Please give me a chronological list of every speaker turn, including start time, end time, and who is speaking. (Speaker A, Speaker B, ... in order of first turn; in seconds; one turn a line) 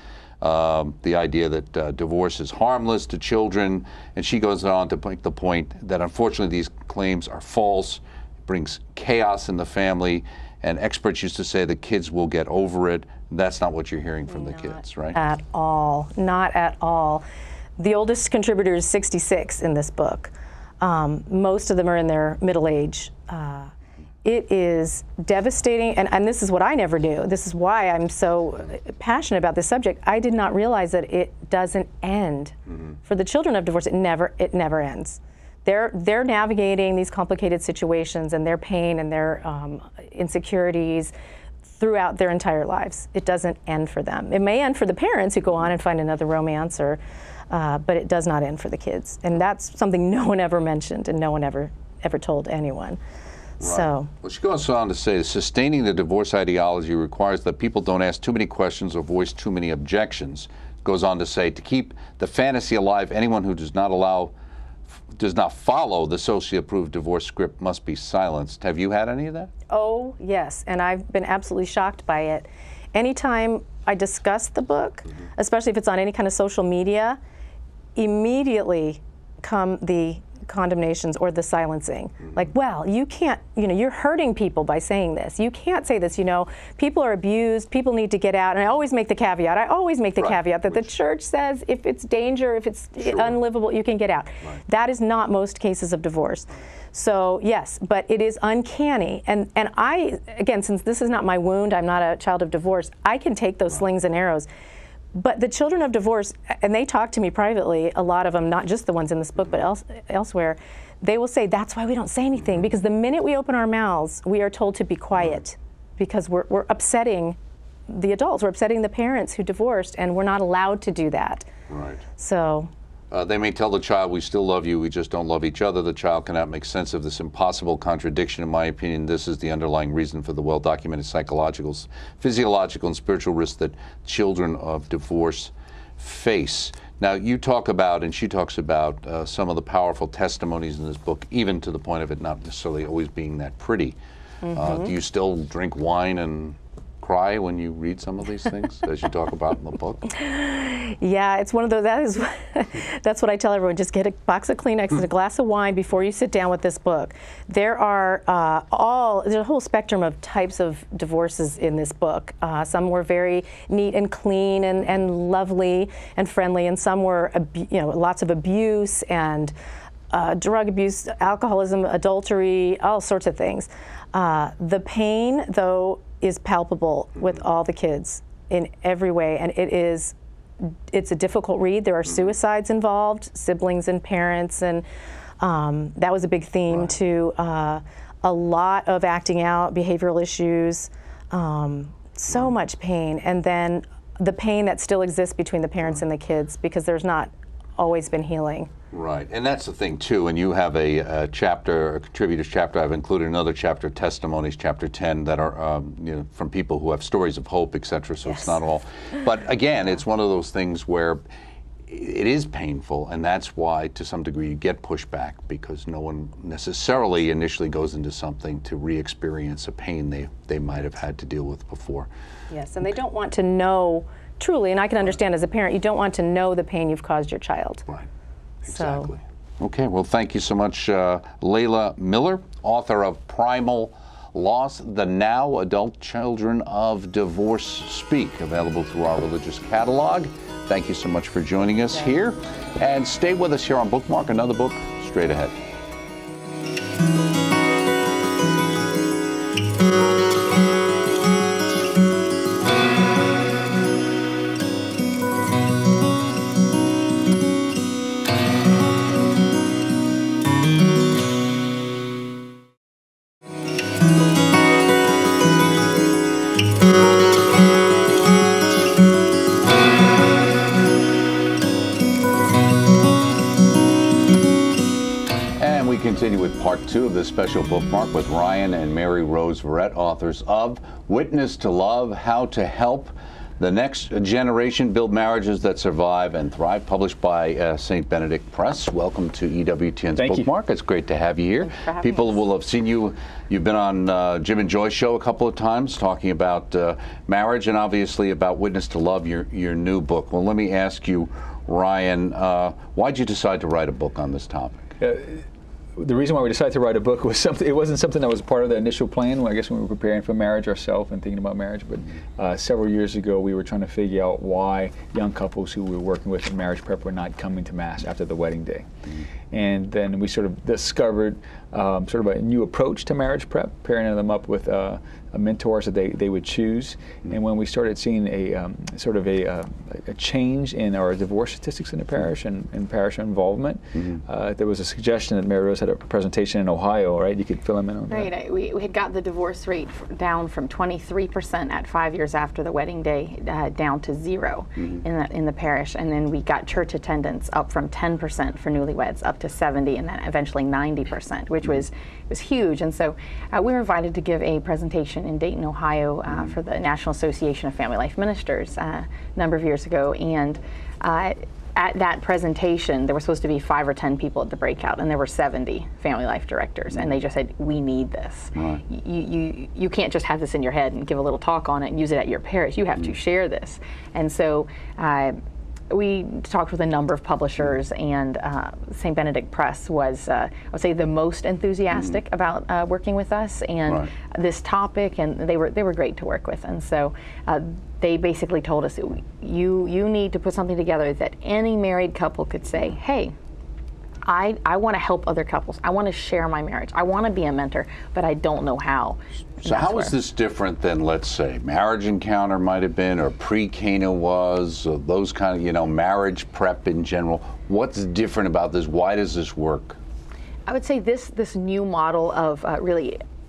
Speaker A: 0.4-15.2
Speaker B: 14.3-17.2
Speaker B: 17.8-23.7
Speaker B: 24.2-41.1
Speaker B: 41.6-53.0
Speaker B: 53.6-54.1
Speaker A: 53.6-64.3
Speaker A: 65.1-69.5
Speaker B: 69.7-77.2
Speaker B: 78.0-104.5
Speaker B: 105.1-117.4
Speaker B: 117.9-121.5
Speaker A: 121.7-122.0
Speaker B: 122.2-122.7
Speaker A: 123.1-144.0
Speaker B: 144.4-144.9
Speaker A: 144.5-150.1
Speaker B: 150.1-169.5
Speaker B: 170.1-184.8
Speaker B: 185.4-198.7
Speaker A: 198.9-211.2
Speaker A: 211.9-222.1
Speaker B: 222.5-227.8
Speaker B: 228.6-229.1
Speaker A: 228.6-245.6
Speaker A: 275.6-304.9
Speaker C: 290.2-290.5
Speaker D: 291.6-292.4
Speaker C: 305.0-305.4
Speaker C: 306.0-318.9
Speaker C: 319.5-338.3
Speaker D: 338.1-375.4
Speaker A: 368.5-368.8
Speaker D: 375.9-393.3
Speaker D: 394.2-400.1
Speaker A: 399.6-410.0
Speaker D: 410.7-413.2